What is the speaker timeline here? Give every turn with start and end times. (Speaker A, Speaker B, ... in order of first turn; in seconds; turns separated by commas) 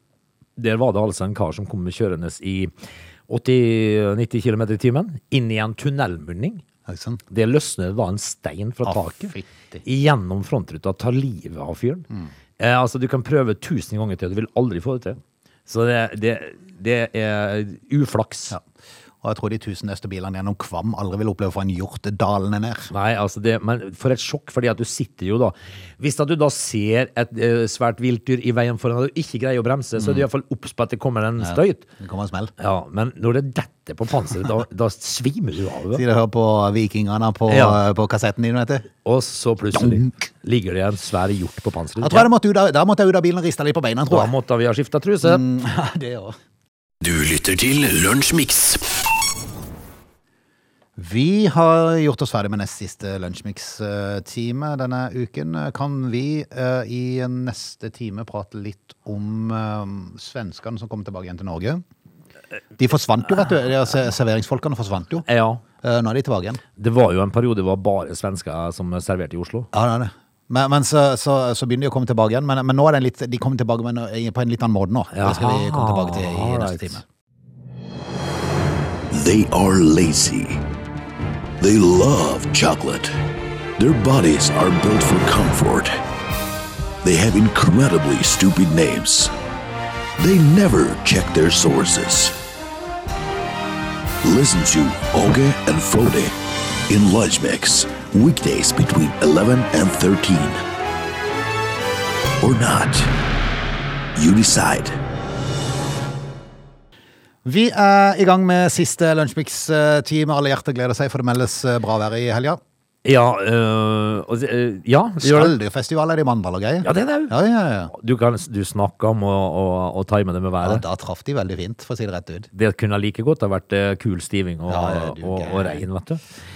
Speaker A: 0.6-2.7, Speaker A: 3.3-6.6, Speaker B: 6.9-7.2, Speaker A: 7.3-12.1, Speaker B: 8.8-9.8, Speaker A: 12.6-18.6, Speaker B: 19.2-22.9, Speaker A: 22.9-31.8, Speaker B: 30.0-30.2, Speaker B: 31.4-32.5, Speaker A: 32.6-36.0, Speaker B: 35.9-38.9, Speaker A: 37.5-37.8, Speaker A: 39.0-42.3, Speaker B: 39.7-40.1, Speaker B: 42.0-44.3, Speaker A: 44.1-45.4, Speaker B: 45.2-46.4, Speaker C: 47.0-48.8, Speaker B: 51.0-61.8, Speaker B: 62.8-65.2, Speaker A: 65.2-65.6, Speaker B: 65.8-66.6, Speaker A: 66.8-69.7, Speaker B: 69.7-77.0, Speaker A: 75.1-77.0, Speaker C: 79.1-80.6, Speaker C: 81.6-83.2, Speaker C: 83.8-86.0, Speaker C: 87.0-89.3, Speaker C: 90.2-92.3, Speaker C: 94.2-96.3, Speaker C: 96.9-100.6, Speaker C: 102.4-103.1, Speaker C: 104.2-105.0, Speaker B: 107.4-112.6, Speaker A: 113.0-115.5, Speaker B: 115.2-117.9, Speaker A: 116.8-117.3, Speaker A: 117.9-120.8, Speaker B: 120.6-122.5, Speaker A: 122.5-126.2, Speaker B: 124.7-125.8